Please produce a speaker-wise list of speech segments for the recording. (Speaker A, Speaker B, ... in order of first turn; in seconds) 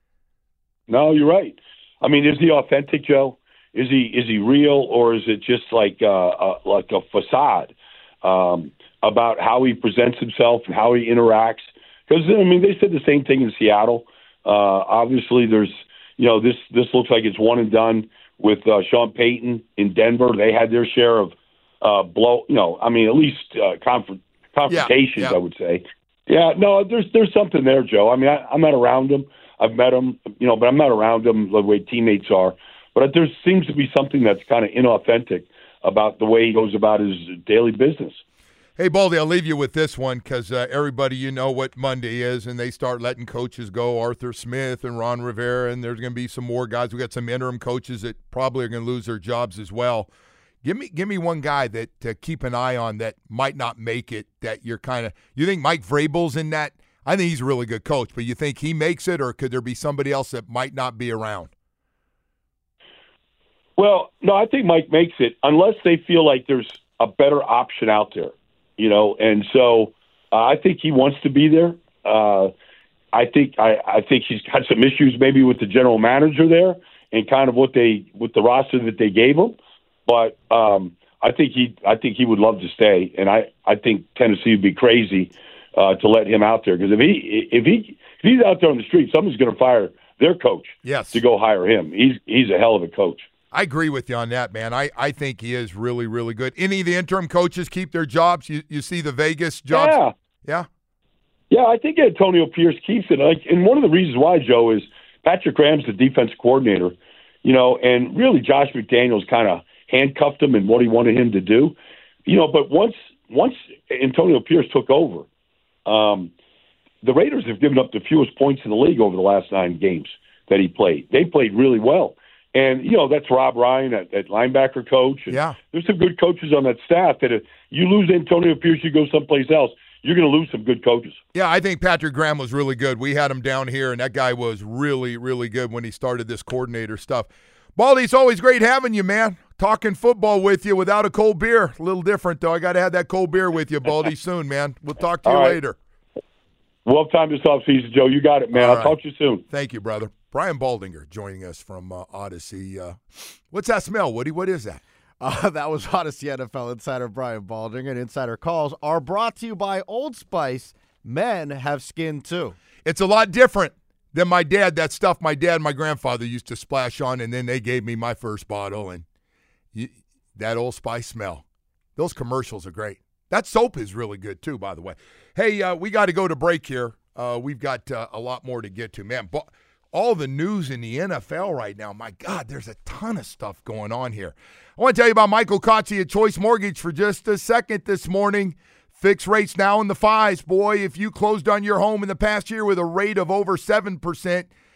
Speaker A: 0.9-38.2, 63.8-72.5, 73.1-93.3, 99.7-100.1, 101.5-115.3, 115.8-116.3, 117.0-131.2, 145.2-145.6, 146.8-149.4
Speaker B: 24.7-25.4, 38.8-50.1, 50.6-61.5, 90.8-91.2, 93.5-100.7, 125.3-125.6, 131.3-145.8, 148.5-149.0, 149.5-153.0, 153.5-154.8, 162.8-169.0, 169.7-171.4, 172.0-194.5
Speaker C: 155.2-162.6